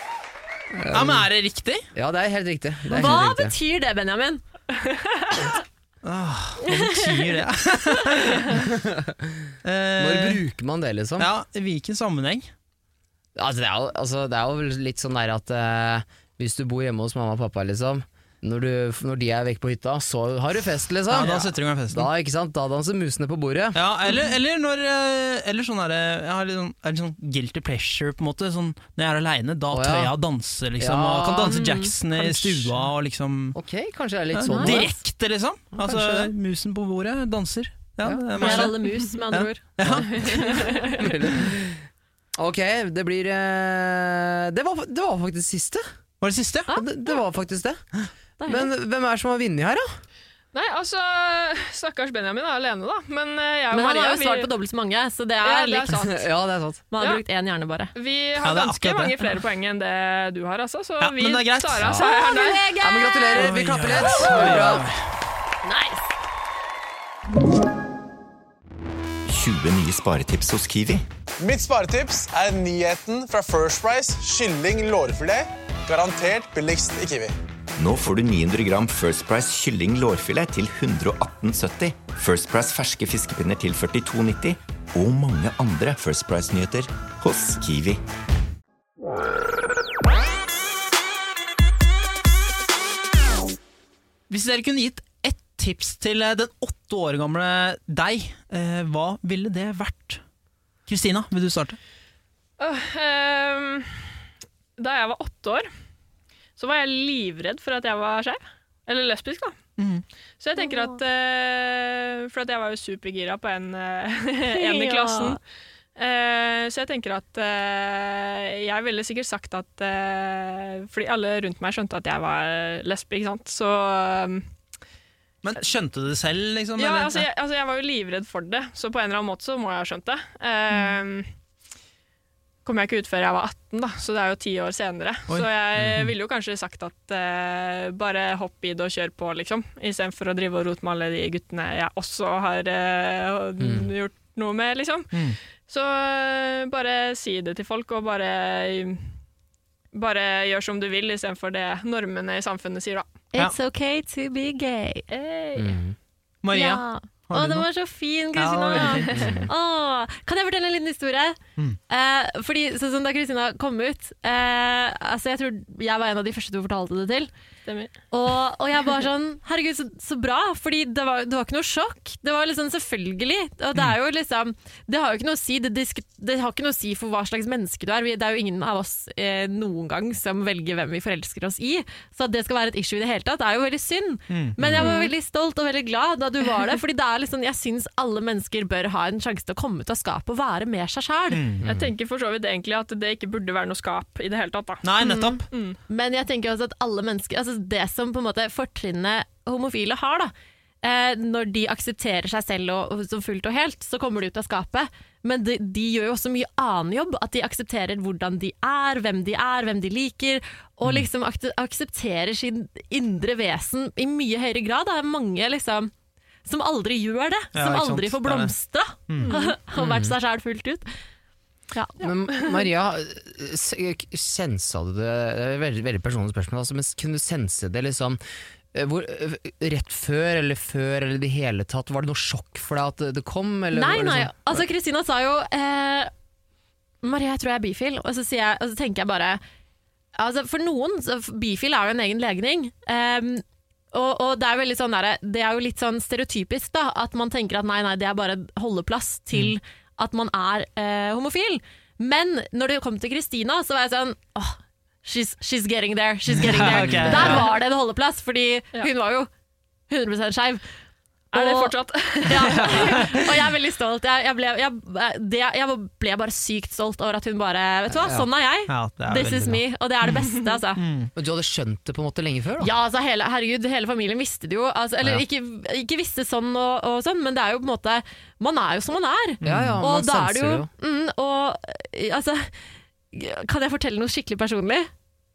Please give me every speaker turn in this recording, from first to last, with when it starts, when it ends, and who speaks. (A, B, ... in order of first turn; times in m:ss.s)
0:00.7-0:01.3 A
0:00.9-0:01.8 B
0:01.9-0:03.5 A
0:02.9-0:04.4 C
0:06.0-0:08.6 B
0:06.7-0:07.1 C
0:08.5-0:09.2 A
0:09.6-0:10.4 B
0:10.0-0:11.3 A
0:11.2-0:12.5 B
0:13.4-0:23.8 A
0:21.1-0:22.1 B
0:23.7-0:33.6 B
0:29.7-0:30.1 A
0:30.8-0:32.7 A
0:31.5-0:32.3 C
0:33.5-0:34.9 A
0:34.3-0:40.1 B
0:34.4-0:34.9 C
0:35.7-0:36.3 A
0:38.0-0:38.7 A
0:38.4-0:41.1 C
0:39.8-0:40.0 A
0:40.3-0:40.9 D
0:41.0-0:41.8 A
0:42.4-0:45.8 A
0:46.2-0:46.7 B
0:46.7-0:47.8 A
0:48.4-0:48.7 C
0:48.4-0:49.9 A
0:50.5-0:54.5 D
0:53.7-0:56.0 C
0:55.4-0:56.2 D
0:55.9-0:56.8 A
0:56.9-0:57.9 C
0:58.0-1:02.7 D
0:58.4-0:59.3 B
1:01.0-1:02.0 B
1:01.9-1:04.5 C
1:02.8-1:04.8 A
1:03.3-1:05.0 B
1:05.6-1:06.0 C
1:09.3-1:11.0 E
1:11.4-1:17.3 F
1:17.8-1:28.0 E
1:34.3-1:40.2 B
1:40.9-1:41.8 B
1:42.6-1:44.1 D
1:44.8-1:45.7 D
1:46.6-1:49.6 D
1:49.8-1:50.0 B
1:50.4-1:55.4 D
1:50.6-1:50.8 C
1:54.4-1:55.4 C
1:56.0-2:04.5 D
2:05.4-2:07.3 B
2:06.8-2:11.3 D
2:12.6-2:29.0 D
2:15.3-2:16.1 B
2:23.6-2:23.9 A
2:29.9-2:33.1 D
2:33.3-2:35.0 C
2:35.1-2:35.8 D
2:35.5-2:36.0 A
2:36.4-2:37.7 B
2:36.5-2:47.3 C
2:38.3-2:39.2 B
2:38.7-2:39.4 D
2:39.1-2:39.5 A
2:47.6-2:47.9 D
2:48.1-3:11.4 C
3:04.3-3:04.8 B
3:04.6-3:04.8 A
3:04.8-3:05.1 D
3:11.3-3:11.6 B
3:11.6-3:11.9 A
3:11.6-3:14.9 D
3:14.8-3:15.4 B
3:15.0-3:15.4 C
3:15.5-3:15.8 D
3:15.9-3:20.3 C
3:20.8-3:35.9 C
3:36.4-3:40.9 C
3:37.5-3:38.5 B
3:39.2-3:39.5 D
3:39.8-3:40.1 A
3:41.7-3:42.0 C
3:42.0-3:48.2 A
3:48.7-3:54.6 A
3:53.7-3:56.1 C
3:57.0-3:59.4 C
4:00.2-4:19.3 C
4:16.3-4:17.5 B
4:16.9-4:17.4 A
4:19.9-4:20.6 C
4:21.3-4:23.1 D
4:21.3-4:30.8 C
4:27.9-4:28.3 A
4:28.7-4:31.1 B
4:29.1-4:29.6 A
4:31.2-4:32.7 A
4:32.6-4:42.5 C
4:39.4-4:39.8 B
4:39.4-4:40.7 A
4:43.1-4:44.9 C